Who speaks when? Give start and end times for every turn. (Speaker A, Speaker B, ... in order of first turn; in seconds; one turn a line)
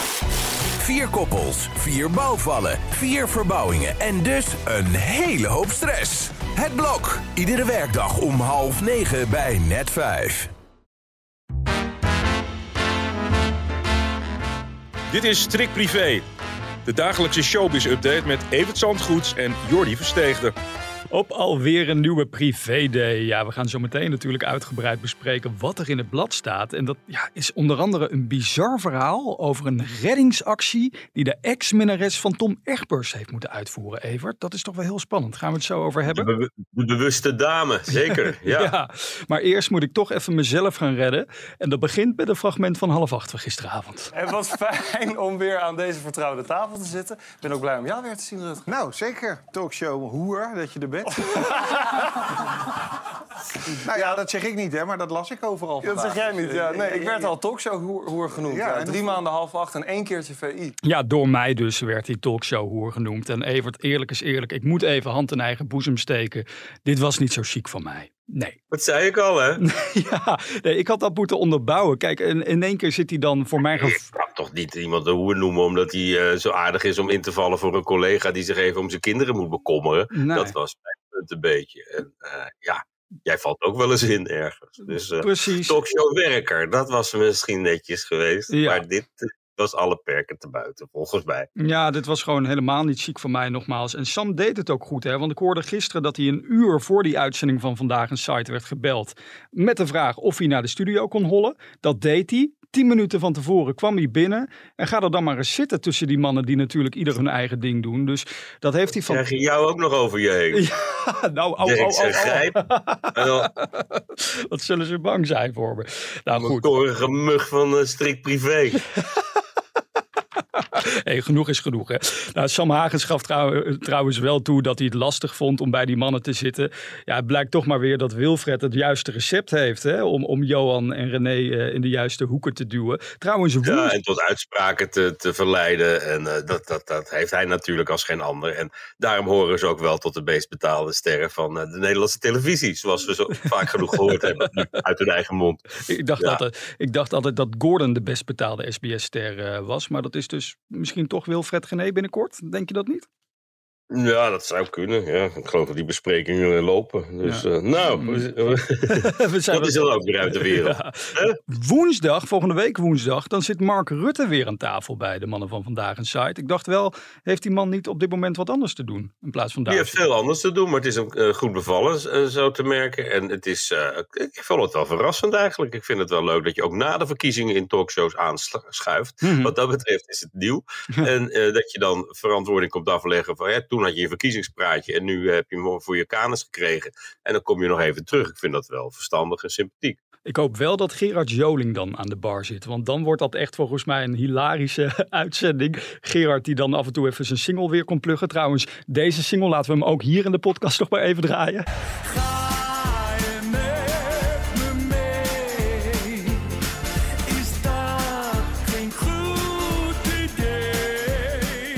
Speaker A: 0.8-10.5
Speaker B: 15.1-16.2
Speaker B: 16.9-20.5
Speaker C: 21.1-36.3
Speaker D: 36.1-38.7
Speaker C: 38.4-44.1
Speaker E: 44.1-48.6
Speaker F: 48.6-52.2
Speaker E: 51.2-51.9
Speaker F: 53.8-57.1
Speaker E: 53.8-54.2
Speaker E: 55.8-60.7
Speaker F: 58.5-59.2
Speaker C: 60.8-68.6
Speaker D: 68.7-69.6
Speaker C: 69.6-74.0
Speaker D: 73.7-91.5
Speaker C: 80.1-80.5
Speaker C: 85.2-85.8
Speaker C: 88.5-88.8
Speaker C: 91.6-109.2
Speaker D: 109.0-110.7
Speaker C: 110.5-116.7
Speaker D: 111.6-112.6
Speaker D: 113.1-113.5
Speaker D: 116.3-118.8
Speaker C: 119.0-119.2
Speaker C: 120.6-133.9
Speaker D: 133.6-146.4
Speaker C: 145.8-153.1
Speaker D: 153.9-161.4
Speaker C: 157.2-158.2
Speaker C: 158.8-170.0
Speaker D: 169.7-190.0
Speaker C: 179.2-179.5
Speaker C: 190.2-201.7
Speaker E: 202.1-203.8
Speaker E: 205.5-205.8
Speaker E: 207.3-210.0